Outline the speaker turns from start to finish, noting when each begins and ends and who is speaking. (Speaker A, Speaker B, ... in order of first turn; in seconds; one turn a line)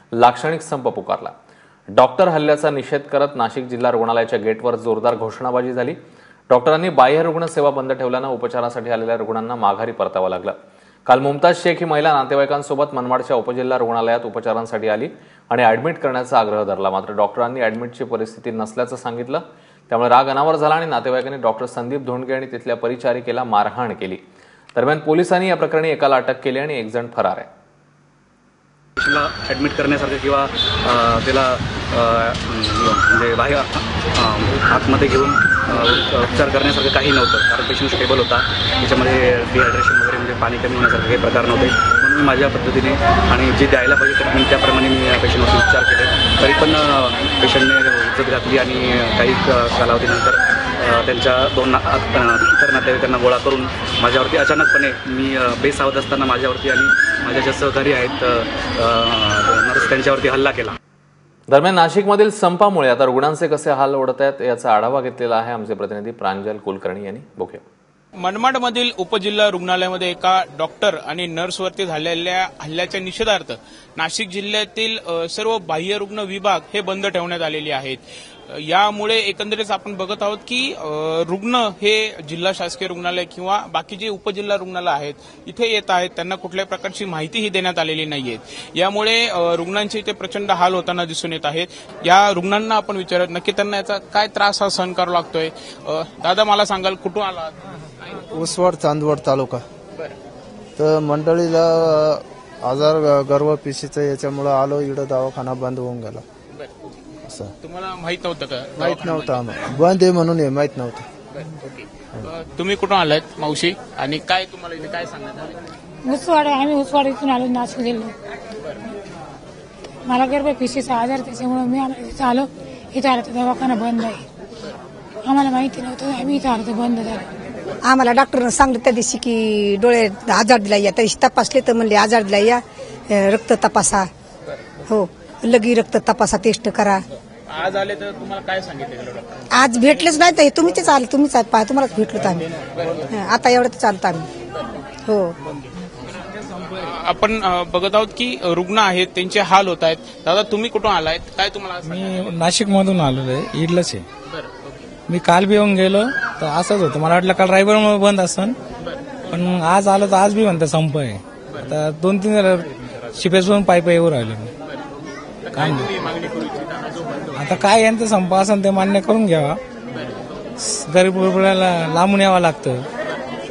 Speaker A: 0.2-1.3
Speaker A: 1.9-6.0
Speaker A: 6.5-10.5
Speaker A: 11.1-24.2
Speaker A: 24.8-27.5
Speaker B: 29.0-60.8
Speaker A: 61.5-67.6
Speaker C: 68.2-97.5
Speaker D: 98.3-99.6
Speaker D: 100.8-106.2
Speaker D: 107.2-107.5
Speaker C: 107.6-109.4
Speaker D: 108.8-111.0
Speaker C: 111.3-115.5
Speaker E: 116.0-118.1
Speaker E: 120.1-124.2
Speaker E: 125.2-127.3
Speaker F: 127.8-132.6
Speaker F: 133.1-134.1
Speaker F: 134.9-137.0
Speaker C: 137.5-139.4
Speaker F: 139.5-142.4
Speaker F: 143.1-144.3
Speaker F: 145.1-145.3
Speaker C: 146.6-152.3
Speaker G: 151.9-154.1
Speaker G: 155.1-158.6
Speaker G: 159.3-164.5
Speaker G: 165.5-165.9
Speaker C: 166.0-166.9
Speaker G: 167.3-169.6
Speaker G: 170.6-172.8